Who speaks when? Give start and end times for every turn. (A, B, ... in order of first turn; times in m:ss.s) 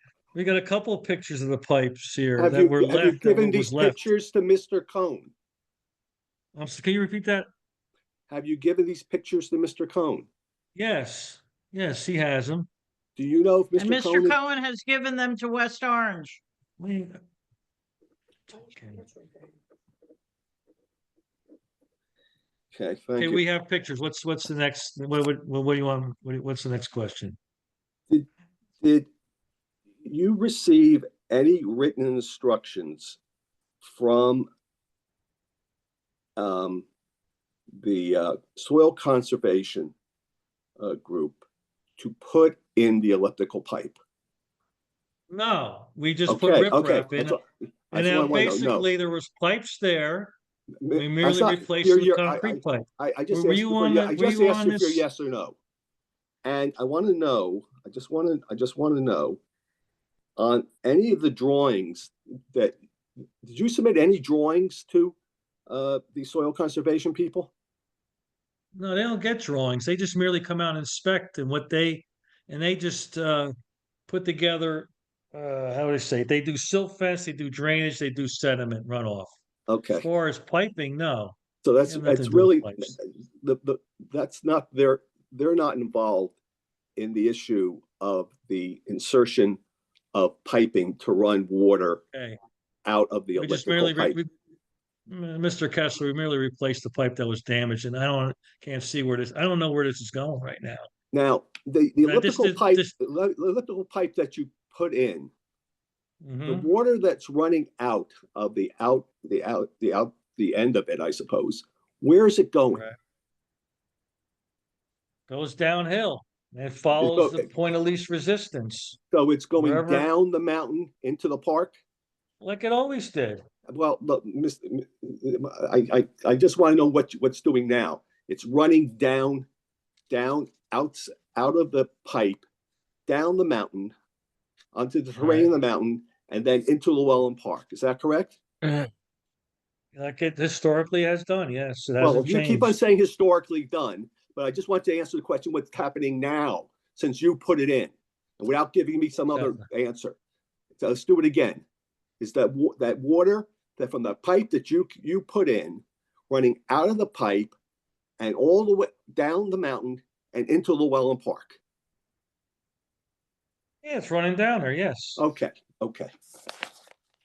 0:00.3-0:04.0 A
0:02.4-0:05.3 B
0:06.5-0:07.5 A
0:08.3-0:10.3 B
0:10.8-0:12.7 A
0:13.2-0:14.4 B
0:13.8-0:16.4 C
0:16.8-0:17.2 A
0:18.5-0:19.1 A
0:22.7-0:23.4 B
0:23.2-0:27.4 A
0:28.8-0:29.1 B
0:30.0-0:33.2 B
0:33.8-0:34.5 B
0:36.4-0:36.8 B
0:37.8-0:39.9 B
0:40.8-0:41.4 B
0:42.0-0:44.0 B
0:45.3-0:47.4 A
0:46.3-0:48.9 B
0:47.9-0:50.3 A
0:50.8-0:55.6 B
0:50.9-0:55.0 A
0:56.4-0:59.4 B
1:00.4-1:02.8 B
1:03.4-1:05.2 B
1:05.7-1:07.5 B
1:08.8-1:13.5 A
1:14.1-1:19.4 A
1:19.7-1:20.1 B
1:19.9-1:21.4 A
1:21.6-1:26.4 B
1:21.9-1:23.0 A
1:27.0-1:29.6 B
1:30.1-1:32.0 B
1:32.1-1:32.4 A
1:32.8-1:34.2 B
1:33.4-1:34.3 A
1:35.1-1:40.8 A
1:41.1-1:45.3 B
1:42.0-1:42.9 A
1:46.2-1:46.7 A
1:46.4-1:52.8 B
1:52.7-1:53.0 A
1:55.3-1:59.0 A
1:57.0-1:57.5 B
1:59.1-2:01.8 B
1:59.6-2:00.1 A
2:02.4-2:03.4 A
2:03.7-2:09.5 B
2:10.1-2:12.4 B
2:13.1-2:13.9 B
2:14.7-2:18.4 B
2:15.1-2:15.5 A
2:19.9-2:22.8 A
2:22.0-2:30.2 B
2:29.3-2:29.6 A
2:30.8-2:31.6 B
2:32.2-2:37.5 B
2:38.2-2:41.6 B
2:43.8-2:45.2 A
2:45.2-2:46.1 B